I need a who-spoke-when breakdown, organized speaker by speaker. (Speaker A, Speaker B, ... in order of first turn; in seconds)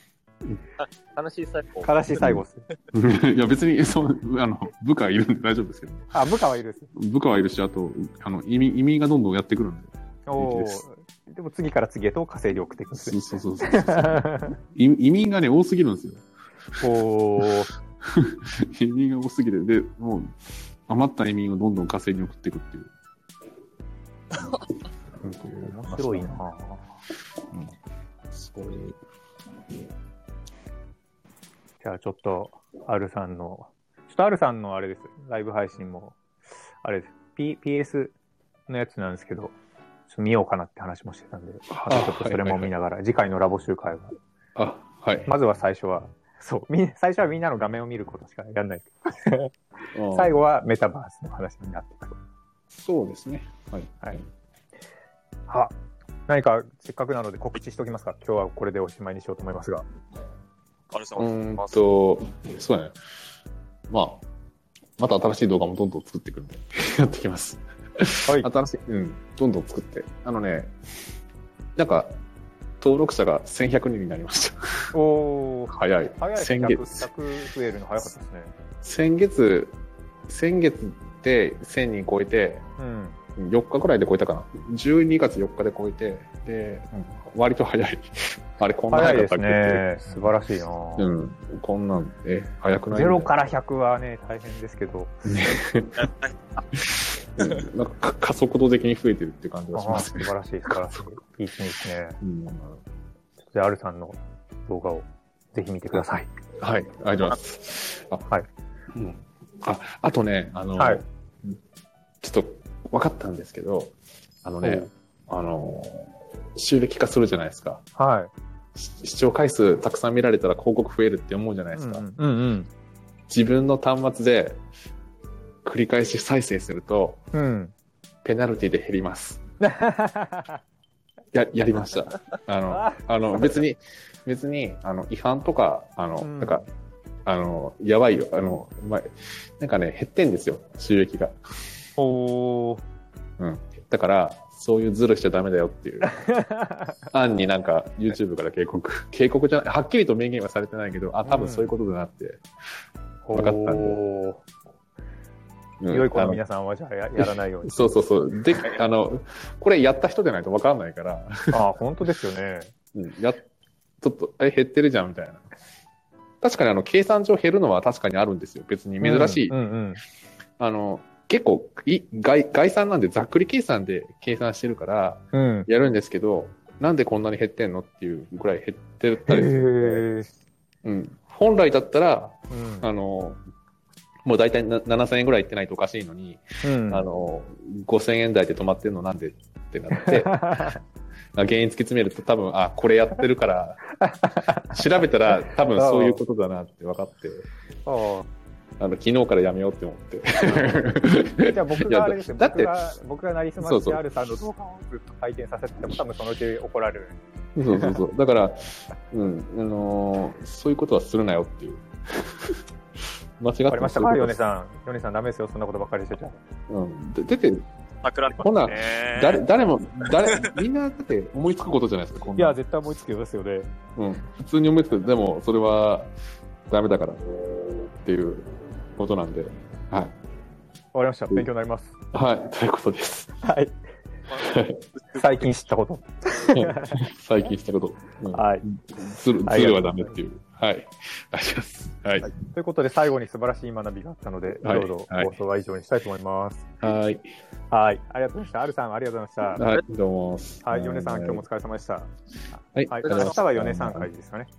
Speaker A: 0.8-2.0, 60.9-61.8, 96.0-96.3, 218.0-219.4, 220.0-220.6
Speaker B: 1.8-2.6, 6.1-6.9, 10.3-14.6, 16.8-17.7, 25.7-26.8, 31.8-36.2, 36.8-38.1, 38.7-39.5, 40.1-44.2, 45.3-49.5, 50.1-52.2, 55.5-55.7, 56.3-59.8, 74.9-78.5, 82.8-83.2, 88.9-91.1, 92.9-95.3, 99.7-102.2, 103.4-106.3, 110.8-111.0, 114.6-114.9, 118.0-118.3, 121.7-122.7, 127.3-127.7, 129.6-130.6, 132.7-133.0, 136.2-136.7, 142.0-142.8, 146.0-147.0, 151.2-151.7, 153.2-154.4, 155.9-157.9, 161.5-162.7, 169.0-170.0, 175.3-175.7, 179.3-180.3, 182.5-182.9, 186.6-187.1, 190.0-190.8, 194.0-194.7, 195.7-196.2, 197.8-198.2, 201.4-207.2, 207.7-208.0, 213.7-216.4, 222.3-223.7, 230.9-231.9, 233.4-233.7, 235.1-237.0, 238.3-238.6, 239.4-240.2, 242.2-246.7, 247.7-249.6, 250.6-252.1, 252.9-254.5
Speaker C: 2.2-6.1, 6.9-10.8, 12.9-16.2, 18.0-20.3, 20.9-22.9, 25.2-26.4, 28.3-29.0, 41.7-42.7, 44.5-45.3, 49.9-50.4, 52.7-54.2, 61.2-62.9, 63.9-64.2, 65.0-70.7, 71.8-72.2, 72.8-74.9, 75.7-77.1, 78.8-79.7, 80.3-82.7, 83.4-90.3, 91.0-93.3, 95.3-96.1, 96.7-100.7, 102.2-102.8, 106.6-108.3, 108.9-111.6, 112.2-117.8, 118.7-122.0, 123.3-124.6, 125.6-127.2, 128.2-129.4, 131.3-136.7, 137.2-141.4, 143.4-146.2, 147.1-152.4, 153.3-154.0, 155.8-156.4, 157.2-161.6, 162.9-163.4, 164.0-165.5, 166.4-169.5, 170.6-180.1, 180.8-183.4, 184.2-190.7, 191.3-197.5, 198.8-202.9, 203.6-204.0, 207.6-212.6, 213.4-214.3, 216.7-217.6, 218.4-222.6, 223.9-226.1, 226.7-227.2, 228.0-230.1, 232.1-233.4, 234.4-234.8, 236.5-242.3, 244.6-245.3, 246.8-247.3, 249.6-251.4, 252.7-254.1